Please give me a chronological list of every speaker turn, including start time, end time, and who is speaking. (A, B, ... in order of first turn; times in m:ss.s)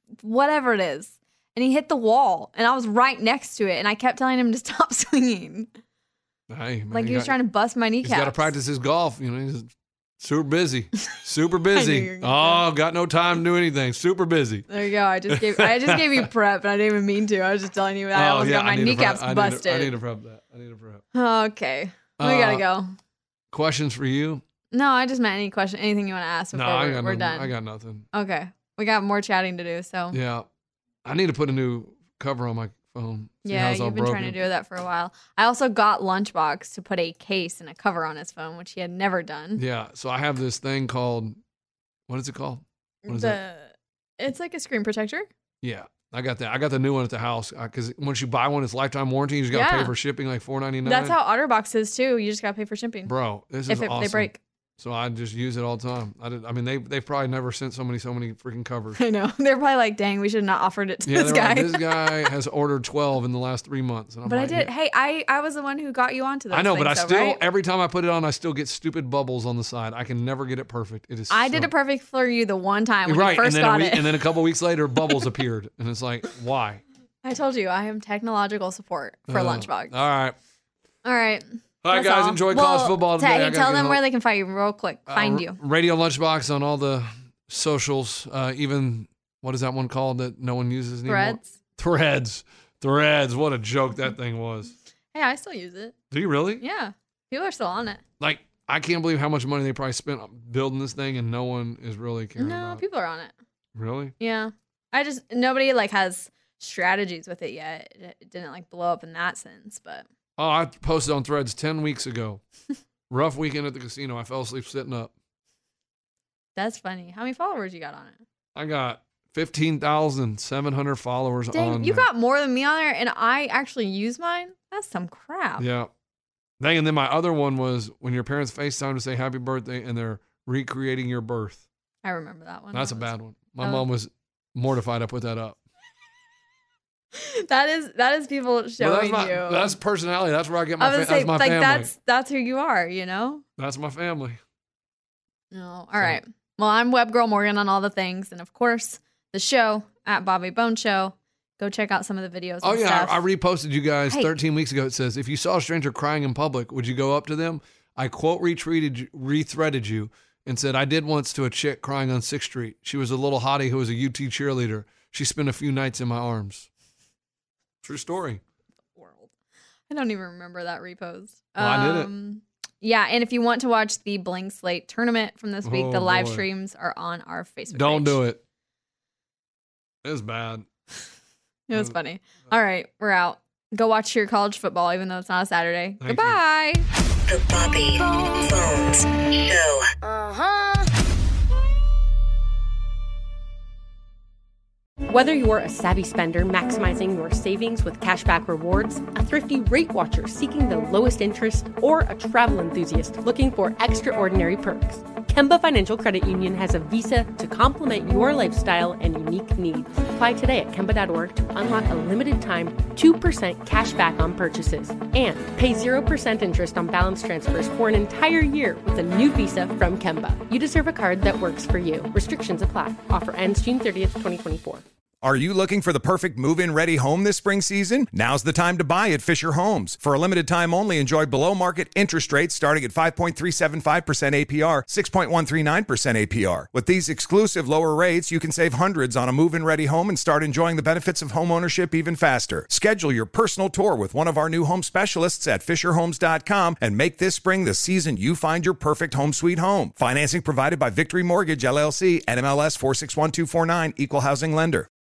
0:00.2-0:05.7 A
0:06.5-0:07.4 B
0:06.9-0:08.5 A
0:08.0-0:14.7 B
0:11.7-0:12.6 A
0:14.7-0:20.0 A
0:15.3-0:16.3 B
0:18.1-0:21.0 B
0:21.1-0:22.9 A
0:22.2-0:22.6 B
0:23.5-0:24.4 B
0:24.7-0:27.5 A
0:26.5-0:28.1 B
0:28.1-0:30.2 A
0:30.1-0:30.4 B
0:31.0-0:34.4 B
0:33.4-0:39.6 A
0:39.6-0:41.4 B
0:42.1-0:43.4 B
0:43.0-0:45.3 A
0:45.6-0:51.2 B
0:49.5-0:49.9 A
0:50.8-0:53.1 A
0:53.0-0:59.0 B
0:53.7-0:54.4 A
0:59.0-1:02.3 A
1:01.0-1:04.7 B
1:04.2-1:07.4 A
1:06.5-1:11.7 B
1:11.3-1:14.2 A
1:13.0-1:16.8 B
1:17.2-1:19.9 A
1:19.3-1:20.3 B
1:21.0-1:25.6 A
1:21.8-1:24.0 B
1:25.1-1:34.7 B
1:31.1-1:31.5 A
1:35.1-1:35.9 A
1:36.1-1:36.6 B
1:36.6-1:38.0 A
1:38.2-1:42.8 B
1:42.4-1:43.3 A
1:43.8-1:44.1 B
1:44.2-1:50.0 A
1:50.4-1:52.4 B
1:53.1-1:55.1 B
1:56.6-1:58.2 A
1:58.5-2:02.0 B
2:01.5-2:05.6 A
2:05.6-2:05.9 B
2:06.6-2:11.6 B
2:12.0-2:13.8 A
2:12.7-2:15.6 B
2:17.1-2:19.7 A
2:18.8-2:21.9 B
2:20.8-2:23.4 A
2:23.6-2:24.4 B
2:25.5-2:33.2 A
2:32.6-2:46.7 B
2:47.8-2:48.4 B
2:49.0-2:49.3 A
2:49.9-2:58.2 A
2:51.6-2:52.1 B
2:55.6-2:56.4 B
2:57.7-2:58.4 B
3:00.0-3:00.7 B
3:01.7-3:06.8 A
3:06.0-3:06.4 B
3:07.3-3:09.9 C
3:08.0-3:08.4 A
3:15.1-3:44.8 D
3:45.2-4:14.9 E